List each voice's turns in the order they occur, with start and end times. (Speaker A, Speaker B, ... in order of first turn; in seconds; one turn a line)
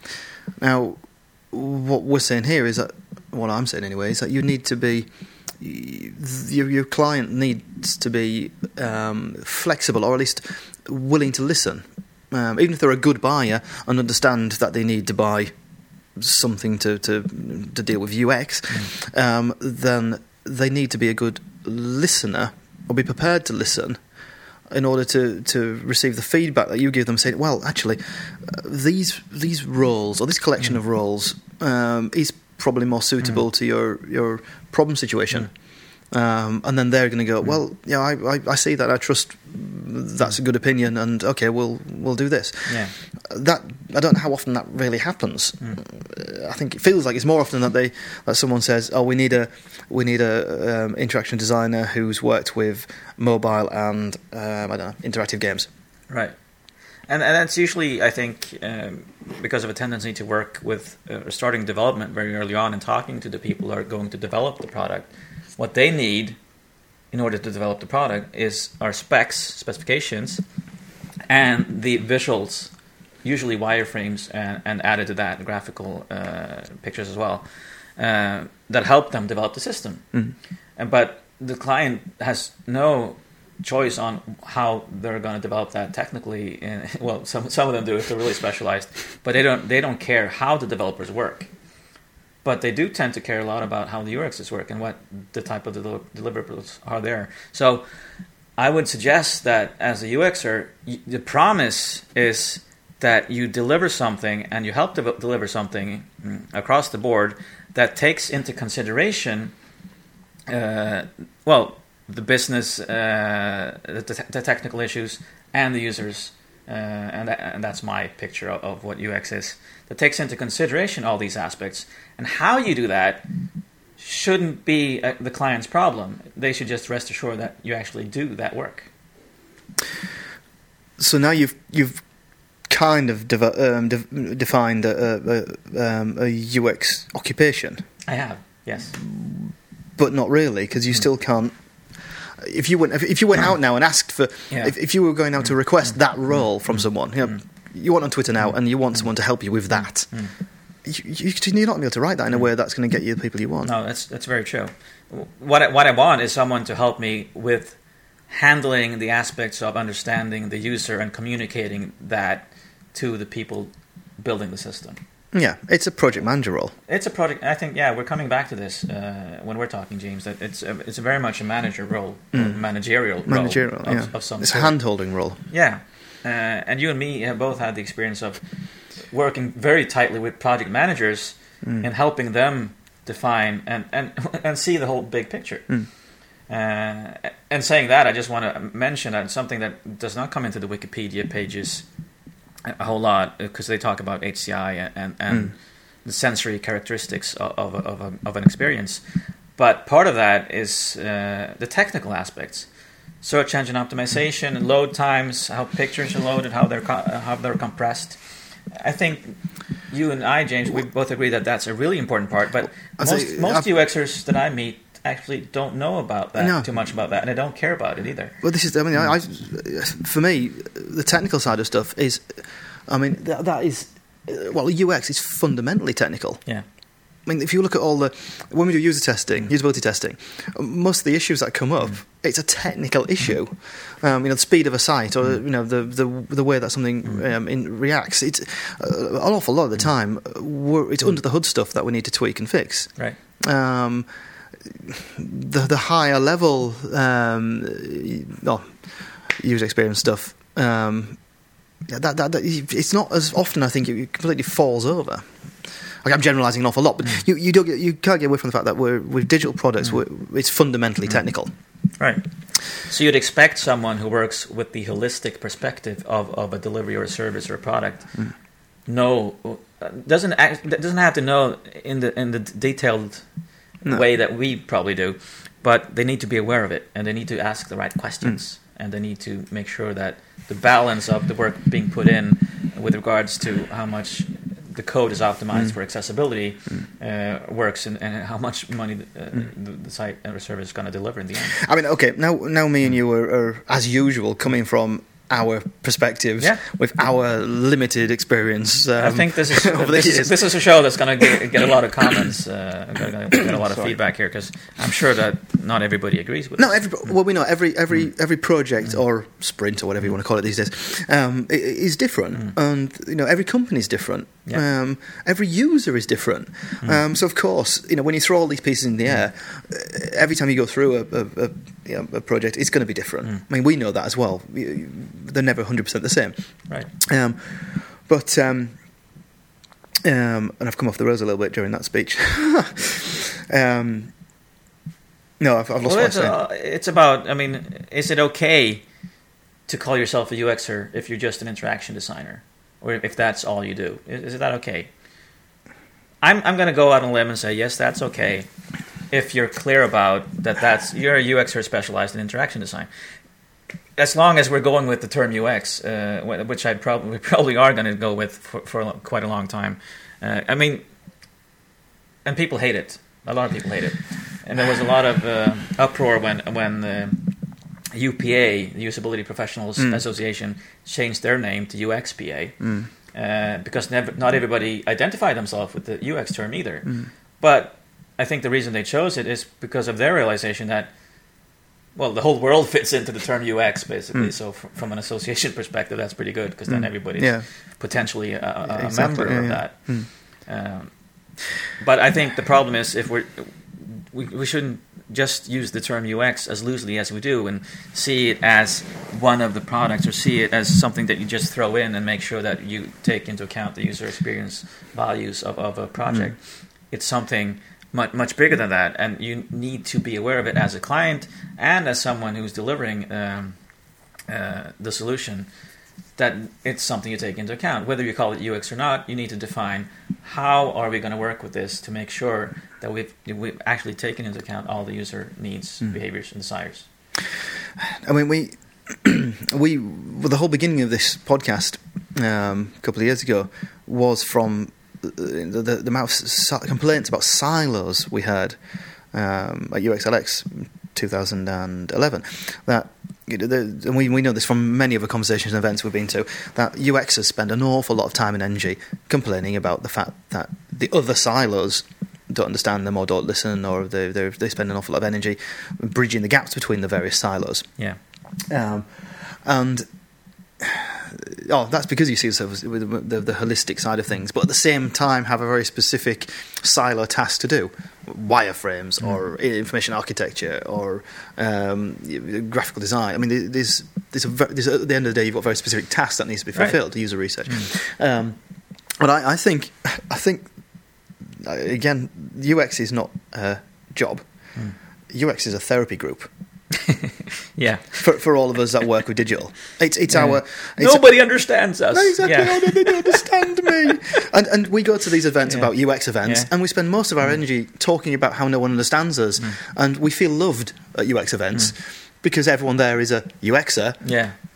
Speaker A: 0.6-15.5
Speaker A: 16.1-24.0
Speaker A: 24.7-35.5
Speaker A: 36.1-55.7
Speaker B: 42.7-42.9
Speaker B: 56.1-56.4
Speaker B: 57.1-66.4
Speaker B: 67.1-70.4
Speaker B: 71.3-72.7
Speaker B: 73.2-80.0
Speaker B: 80.8-91.5
Speaker B: 92.4-97.8
Speaker B: 98.6-109.5
Speaker B: 110.5-123.2
Speaker B: 124.0-128.9
Speaker A: 131.0-132.0
Speaker A: 132.6-137.8
Speaker B: 138.1-138.9
Speaker A: 138.9-141.5
Speaker A: 142.3-150.1
Speaker B: 150.1-150.3
Speaker A: 150.8-153.7
Speaker B: 153.6-165.0
Speaker A: 165.3-166.7
Speaker B: 166.9-174.8
Speaker A: 172.3-172.6
Speaker A: 173.2-175.4
Speaker B: 175.5-178.4
Speaker B: 178.9-185.8
Speaker A: 181.6-181.9
Speaker B: 186.5-191.8
Speaker B: 192.7-199.0
Speaker B: 199.6-202.7
Speaker B: 203.2-208.2
Speaker B: 208.7-218.3
Speaker A: 213.0-213.7
Speaker A: 216.4-216.7
Speaker A: 218.4-226.4
Speaker A: 227.2-244.1
Speaker A: 244.7-251.3
Speaker A: 251.9-255.3
Speaker A: 256.0-261.5
Speaker B: 262.0-268.2
Speaker B: 268.8-273.3
Speaker B: 273.8-291.6
Speaker A: 291.6-300.6
Speaker B: 299.0-306.7
Speaker A: 303.4-303.9
Speaker A: 306.6-326.3
Speaker A: 327.0-328.8
Speaker A: 330.0-334.1
Speaker A: 335.4-336.4
Speaker B: 335.8-338.8
Speaker B: 339.7-344.9
Speaker B: 346.2-348.5
Speaker B: 349.1-352.9
Speaker B: 354.0-360.8
Speaker B: 362.2-367.2
Speaker B: 367.9-380.9
Speaker A: 372.6-372.9
Speaker B: 381.9-390.9
Speaker A: 386.7-387.5
Speaker A: 388.6-390.1
Speaker B: 391.6-413.6
Speaker B: 414.3-415.5
Speaker B: 416.2-426.9
Speaker A: 427.8-438.6
Speaker A: 439.1-457.7
Speaker A: 458.5-459.9
Speaker A: 460.6-478.4
Speaker A: 478.9-480.6
Speaker A: 481.2-484.6
Speaker A: 485.1-486.3
Speaker B: 486.9-488.0
Speaker A: 487.9-491.3
Speaker B: 490.1-493.2
Speaker A: 491.9-504.1
Speaker B: 493.8-494.2
Speaker B: 496.2-496.5
Speaker B: 504.0-504.3